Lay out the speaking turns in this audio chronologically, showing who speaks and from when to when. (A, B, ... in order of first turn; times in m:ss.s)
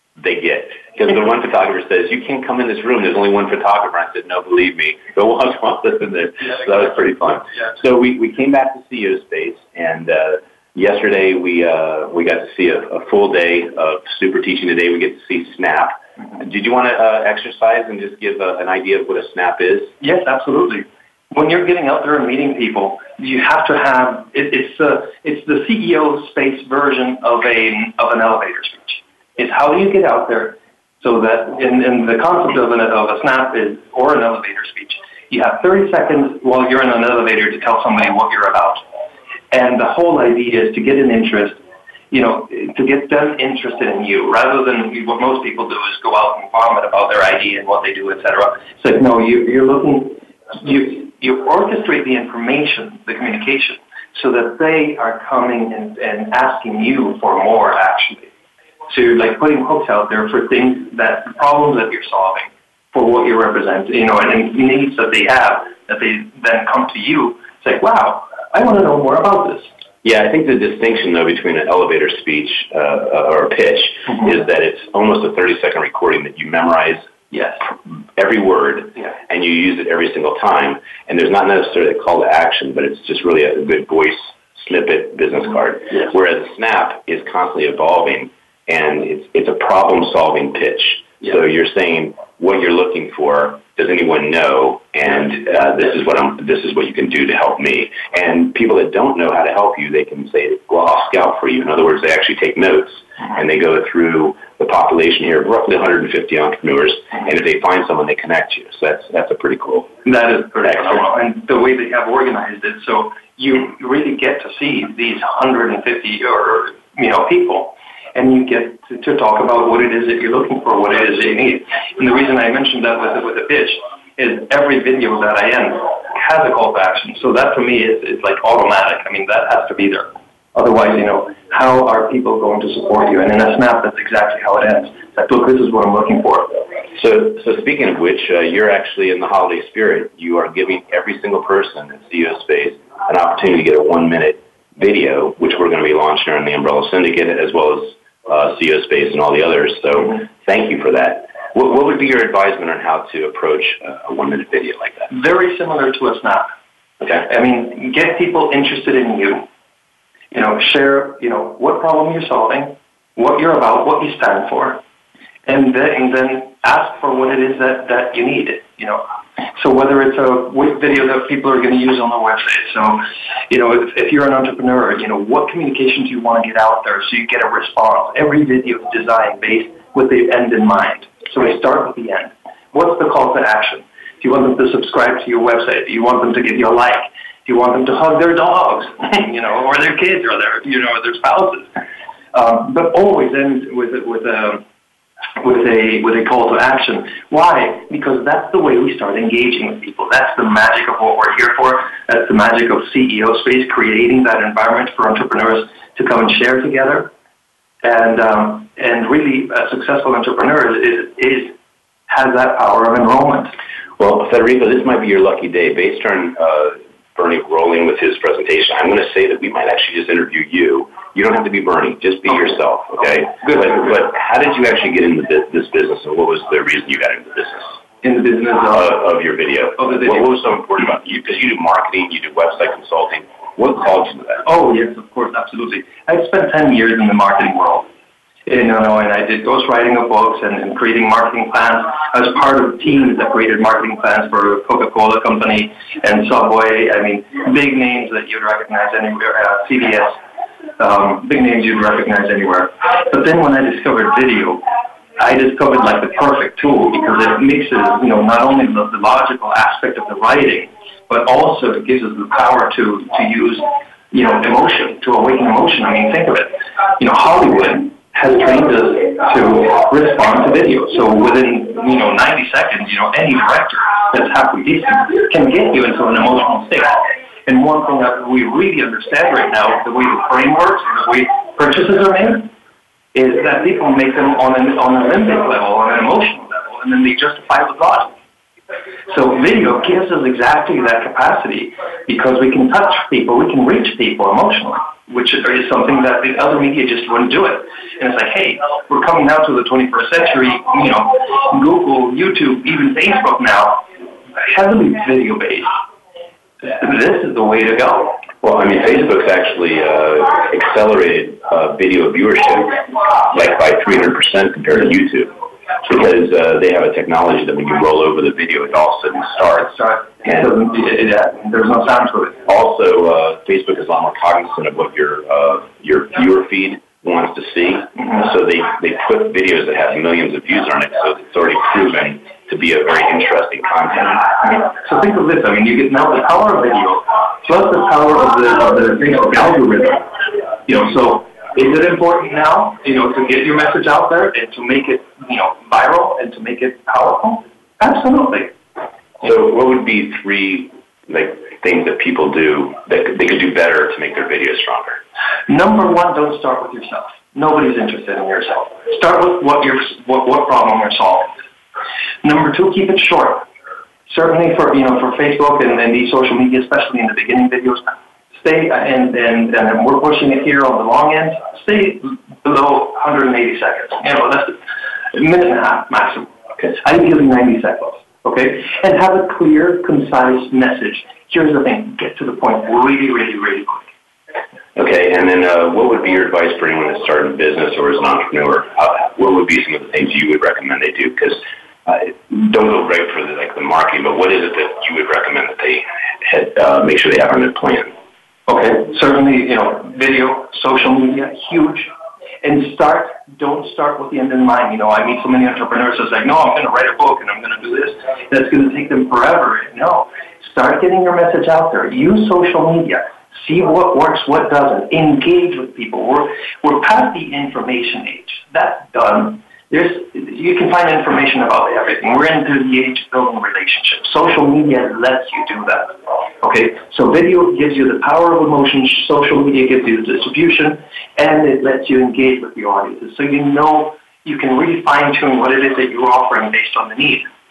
0:00.2-0:19.9 A
0:20.0-0:38.8 B
0:39.5-0:41.6 B
0:42.1-0:58.3 B
0:58.9-1:09.7 B
1:10.0-1:17.1 A
1:17.3-1:17.6 B
1:17.6-1:50.0 A
1:50.0-2:16.6 B
1:50.6-1:51.1 A
2:16.9-2:35.1 A
2:35.1-2:36.5 B
2:37.2-2:39.5 B
2:40.3-2:44.8 B
2:45.5-3:11.8 B
3:12.3-3:14.6 B
3:15.4-3:27.1 B
3:27.8-3:31.6 B
3:32.1-3:33.6 B
3:34.0-3:47.8 A
3:43.4-3:43.9 B
3:48.0-3:49.0 B
3:48.7-3:54.4 A
3:49.8-3:50.3 B
3:54.4-3:57.9 B
3:58.5-4:10.2 B
4:10.8-4:14.6 B
4:15.2-4:42.5 B
4:43.1-4:48.2 B
4:49.1-5:05.8 B
5:06.6-5:08.2 B
5:08.4-5:20.5 A
5:19.7-5:22.4 B
5:22.4-5:34.5 A
5:34.4-5:48.6 B
5:49.2-5:55.0 A
5:55.5-6:01.3 B
6:02.2-6:03.5 B
6:04.1-6:14.6 B
6:15.1-6:23.9 B
6:24.8-6:37.9 A
6:38.5-6:41.9 B
6:42.4-7:17.3 B